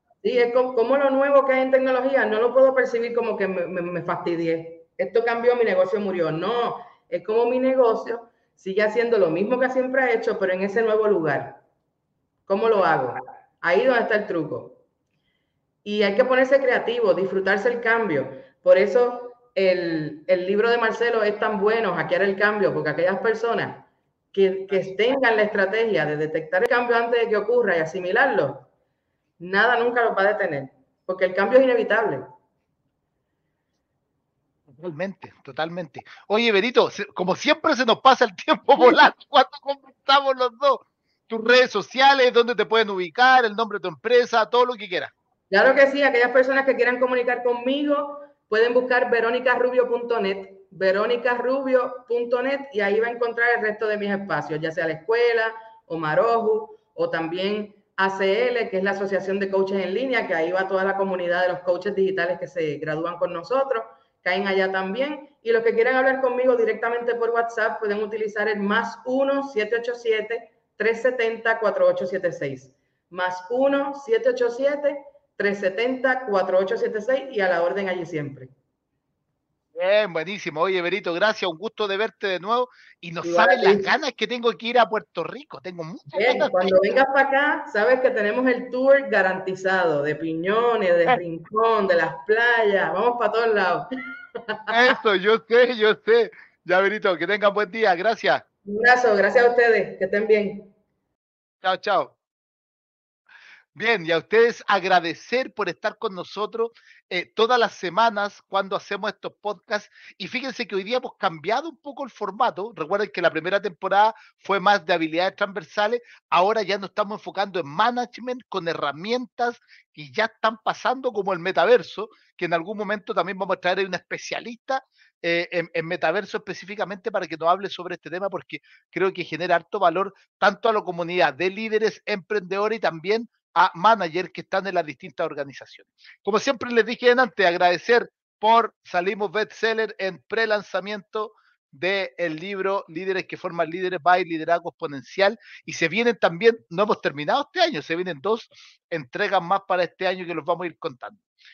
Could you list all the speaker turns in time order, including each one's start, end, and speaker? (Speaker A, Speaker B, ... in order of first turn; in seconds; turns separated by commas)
Speaker A: 0.2-11.6, Speaker A: 12.5-14.8, Speaker A: 15.8-28.7, Speaker A: 29.4-32.3, Speaker B: 34.8-45.1, Speaker A: 45.5-78.5, Speaker B: 79.7-86.9, Speaker A: 83.2-83.9, Speaker A: 86.1-95.0, Speaker B: 94.7-98.4, Speaker A: 98.6-100.7, Speaker B: 101.6-102.1, Speaker B: 103.7-151.2